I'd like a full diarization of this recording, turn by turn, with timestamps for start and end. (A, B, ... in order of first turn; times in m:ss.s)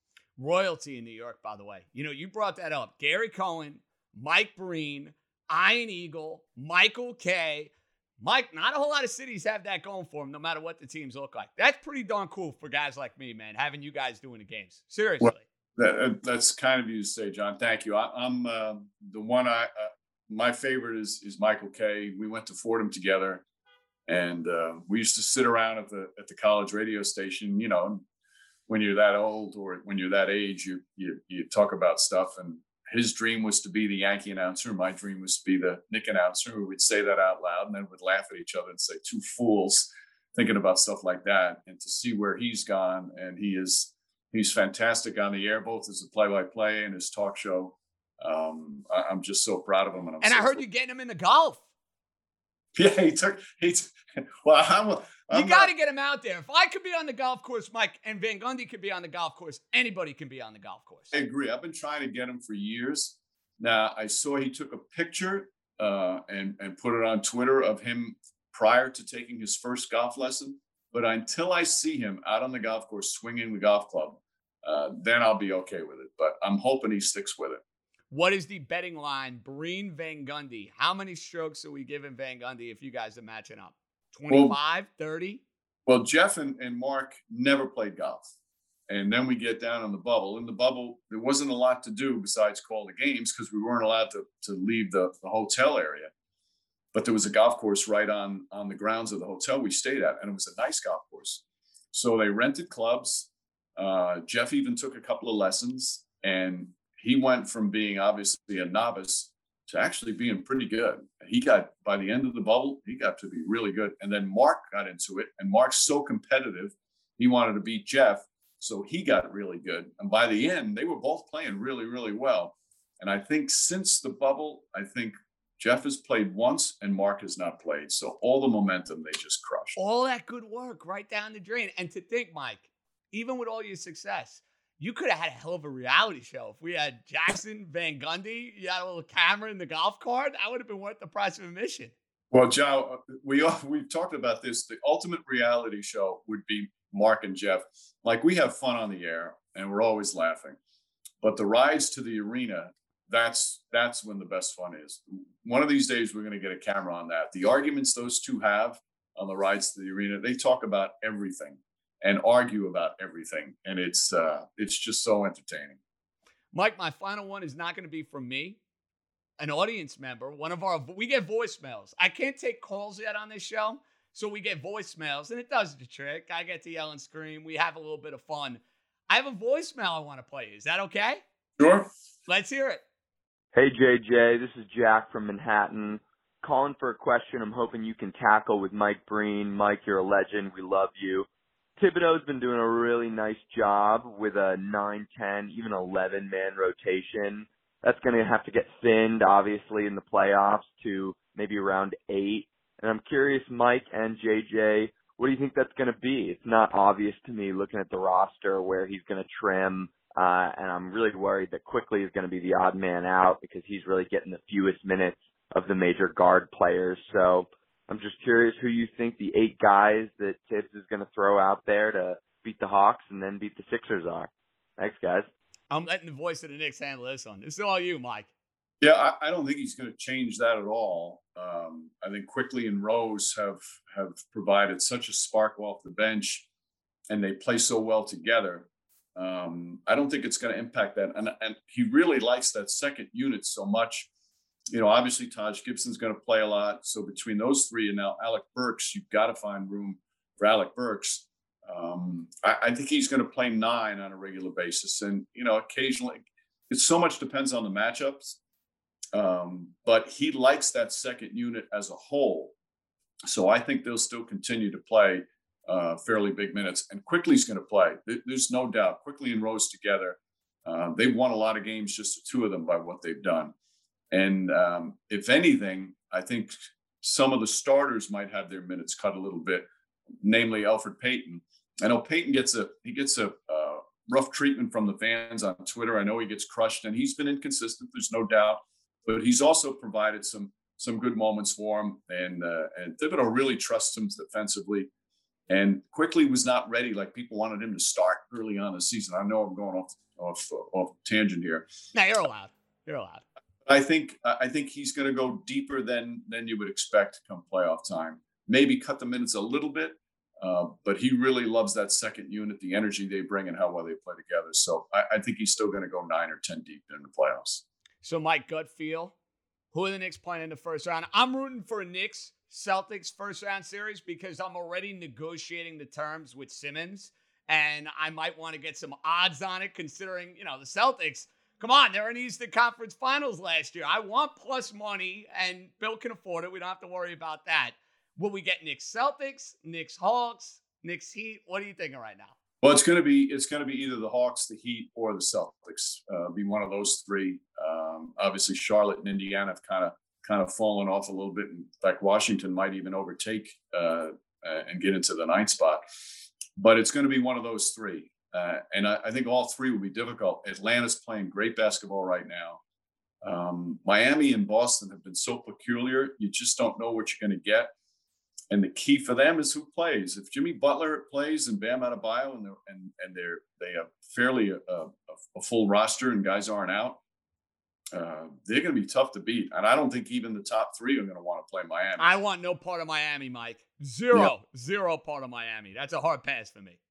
0:00.4-0:15.4 A
0:15.2-0:23.4 B
0:24.1-0:28.0 B
0:28.7-0:50.6 B
0:50.2-0:51.6 A
0:52.8-0:55.7 B
0:55.3-1:01.1 A
1:01.1-1:17.6 B
1:18.1-1:25.4 A
1:24.3-1:24.6 B
1:25.9-1:28.3 B
1:28.9-1:36.1 B
1:36.9-2:09.8 B
2:09.8-2:21.9 A
2:22.3-2:30.6 B
2:31.2-2:45.8 B
2:46.5-2:48.6 A
2:49.4-3:01.2 A
3:01.6-3:01.9 B
3:02.3-3:02.8 A
3:03.5-3:11.3 C
3:11.8-3:45.3 C
3:45.7-3:48.3 A
3:48.8-3:56.5 B
3:57.1-4:04.1 B
4:04.7-4:18.4 B
4:19.1-4:22.5 B
4:23.2-4:33.5 B
4:34.1-4:39.7 B
4:40.2-4:54.9 B
4:55.5-5:01.7 B
5:01.9-5:03.2 A
5:03.7-5:17.6 B
5:18.0-5:19.1 A
5:19.7-5:42.4 A
5:42.6-5:55.8 B
5:56.6-6:02.6 B
6:03.2-6:07.7 B
6:08.5-6:17.0 B
6:17.9-6:22.1 B
6:22.0-6:26.8 A